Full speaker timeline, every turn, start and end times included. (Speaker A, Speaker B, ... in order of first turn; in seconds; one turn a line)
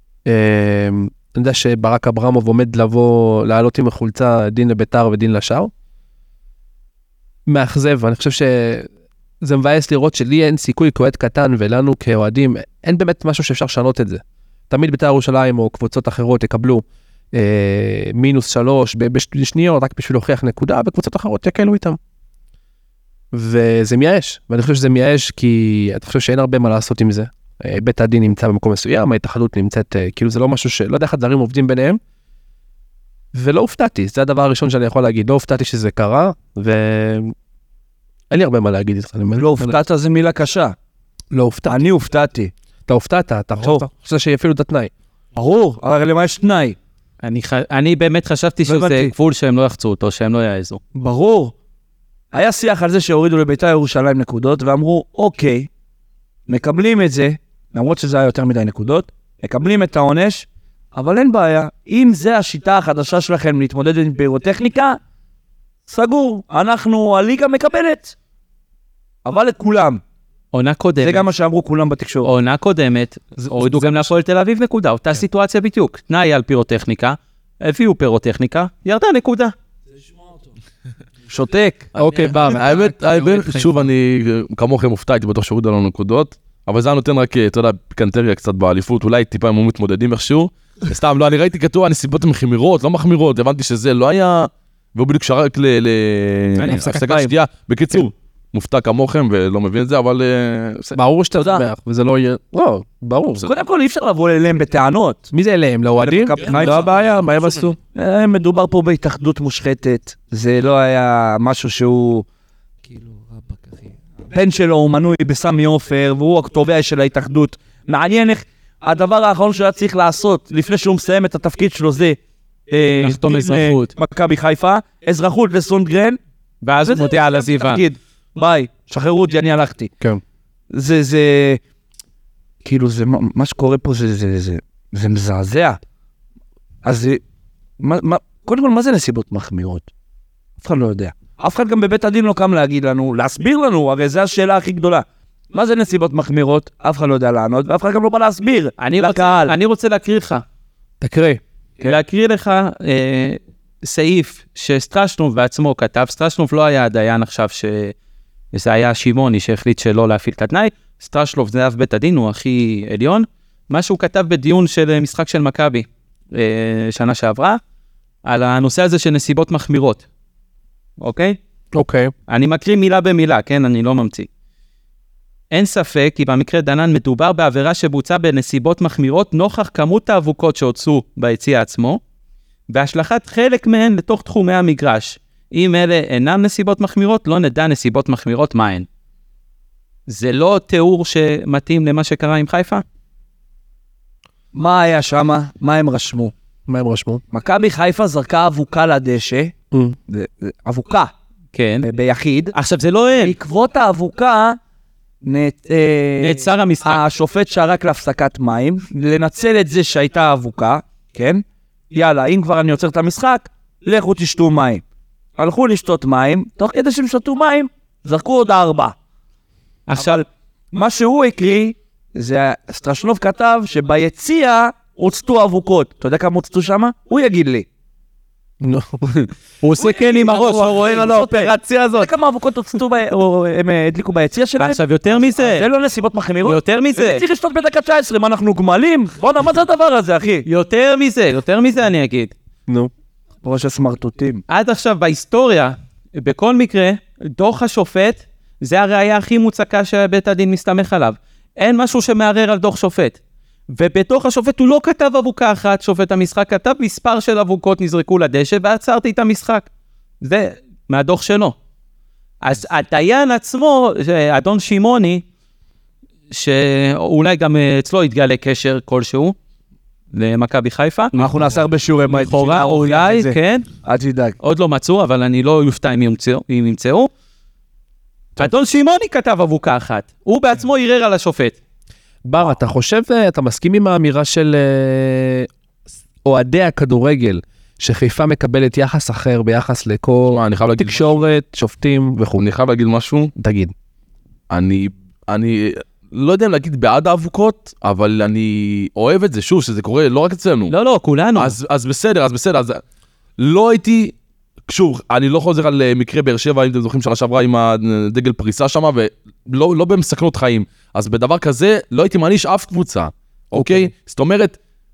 Speaker A: 0.2-5.7
Speaker A: 7.5-8.9
Speaker A: 9.4-22.0
Speaker A: 23.3-32.0
Speaker A: 33.3-37.3
Speaker A: 38.3-39.8
Speaker B: 39.4-40.7
Speaker A: 41.3-41.8
Speaker B: 41.7-42.5
Speaker A: 42.9-44.9
Speaker B: 43.6-43.8
Speaker B: 45.3-46.8
Speaker C: 47.2-50.8
Speaker B: 48.6-49.1
Speaker B: 50.9-51.5
Speaker B: 52.3-55.7
Speaker B: 56.5-65.0
Speaker B: 65.9-68.1
Speaker B: 69.2-70.0
Speaker C: 70.5-71.3
Speaker B: 71.0-72.3
Speaker C: 72.2-79.5
Speaker B: 73.4-73.8
Speaker B: 81.3-81.9
Speaker A: 81.9-83.7
Speaker D: 82.5-101.0
Speaker A: 96.6-97.3
Speaker A: 100.9-103.5
Speaker B: 103.4-105.3
Speaker A: 105.3-107.8
Speaker B: 106.0-106.9
Speaker B: 107.9-112.2
Speaker B: 112.8-122.2
Speaker B: 122.7-126.2
Speaker C: 123.0-123.9
Speaker C: 126.6-127.8
Speaker B: 126.8-129.9
Speaker B: 130.7-131.6
Speaker B: 132.6-135.8
Speaker B: 136.8-137.2
Speaker B: 137.8-139.9
Speaker B: 140.6-149.5
Speaker C: 148.8-150.4
Speaker A: 151.0-151.4
Speaker C: 151.8-157.9
Speaker C: 158.5-167.6
Speaker C: 168.2-170.0
Speaker C: 171.0-171.4
Speaker A: 171.7-172.1
Speaker C: 172.3-174.3
Speaker C: 175.5-182.0
Speaker C: 182.7-188.9
Speaker C: 190.1-192.8
Speaker B: 194.5-196.3
Speaker A: 196.7-197.2
Speaker B: 197.3-199.5
Speaker A: 199.7-200.0
Speaker B: 200.1-201.1
Speaker C: 201.5-201.8
Speaker B: 201.8-202.5
Speaker C: 202.5-203.3
Speaker B: 203.2-204.6
Speaker B: 205.2-214.8
Speaker C: 206.2-207.0
Speaker B: 215.4-218.9
Speaker C: 219.9-220.2
Speaker B: 220.7-227.7
Speaker A: 228.6-229.3
Speaker C: 229.6-231.5
Speaker B: 230.0-240.4
Speaker A: 231.2-232.1
Speaker C: 234.6-235.7
Speaker C: 236.4-237.2
Speaker C: 240.4-242.3
Speaker B: 243.4-244.4
Speaker C: 244.5-253.2
Speaker C: 253.7-259.7
Speaker C: 260.2-261.5
Speaker C: 262.4-265.2
Speaker C: 266.3-269.4
Speaker C: 270.1-271.3
Speaker B: 271.1-274.4
Speaker C: 272.1-273.7
Speaker C: 274.4-277.1
Speaker C: 278.4-281.6
Speaker A: 282.2-285.5
Speaker A: 286.2-292.4
Speaker D: 290.3-291.2
Speaker D: 292.4-293.3
Speaker A: 293.4-293.7
Speaker D: 294.5-300.7
Speaker C: 300.7-301.6
Speaker D: 301.4-302.8
Speaker D: 303.4-304.1
Speaker D: 304.7-314.6
Speaker A: 313.5-313.9